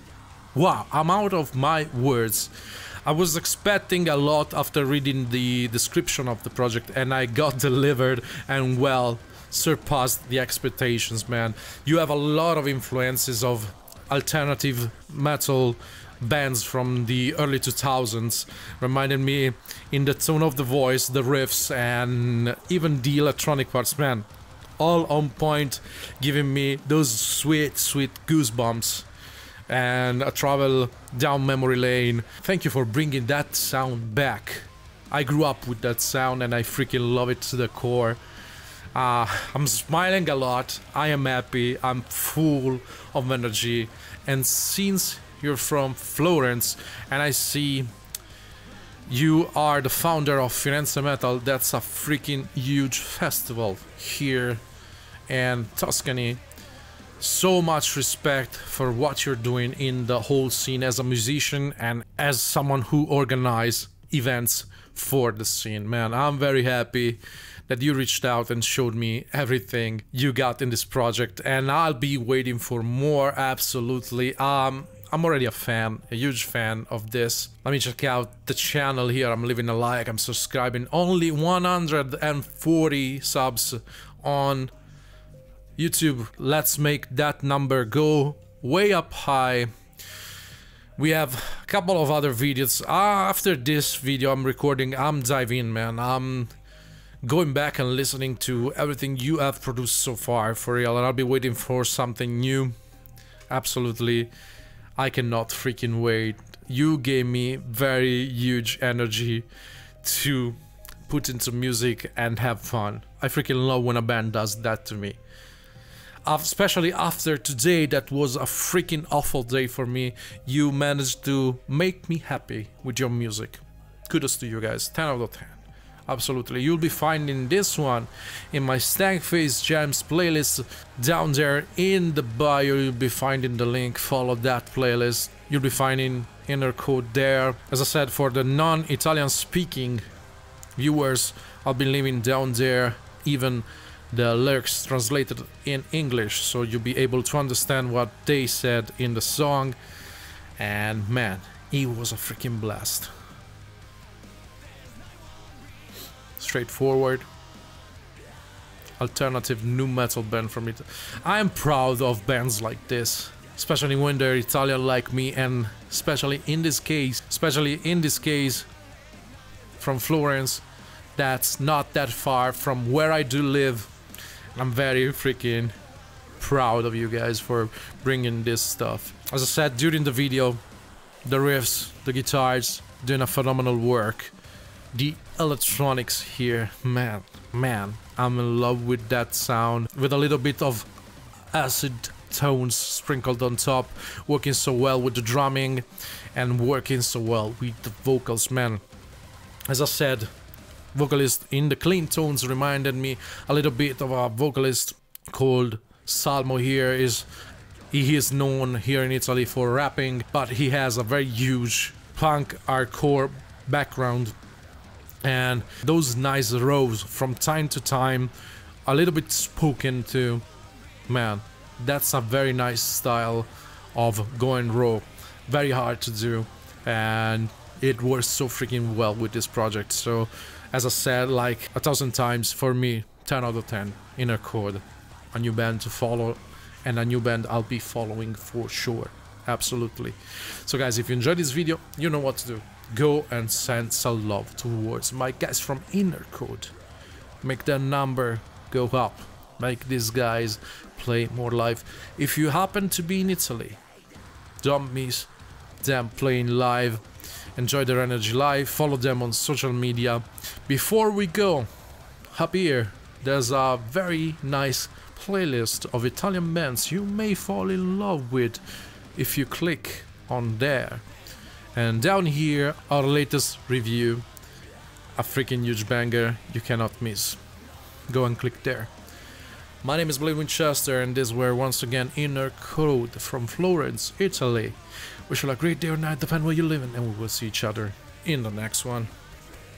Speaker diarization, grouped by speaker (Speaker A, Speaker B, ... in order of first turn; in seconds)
Speaker A: 0.5-2.5, 3.0-24.3, 24.8-29.1, 29.7-38.2, 38.9-47.9, 49.1-54.6, 55.3-56.4, 57.2-84.7, 85.8-89.7, 91.0-96.5, 97.2-102.7, 103.5-104.3, 105.0-109.5, 110.0-115.2, 116.2-140.0, 140.8-149.8, 150.6-153.1, 156.4-157.3, 159.0-168.7, 169.8-170.6, 171.2-173.9, 174.5-175.8, 176.4-180.6, 181.2-184.3, 184.9-190.9, 191.5-198.8, 199.7-200.3, 200.9-207.3, 207.9-214.3, 215.2-218.3, 218.9-220.4, 221.1-246.7, 247.4-253.8, 254.6-255.3, 255.8-257.0, 257.6-261.7, 262.3-268.6, 269.1-271.1, 271.7-274.3, 275.2-277.4, 278.1-278.9, 279.8-284.8, 285.3-289.1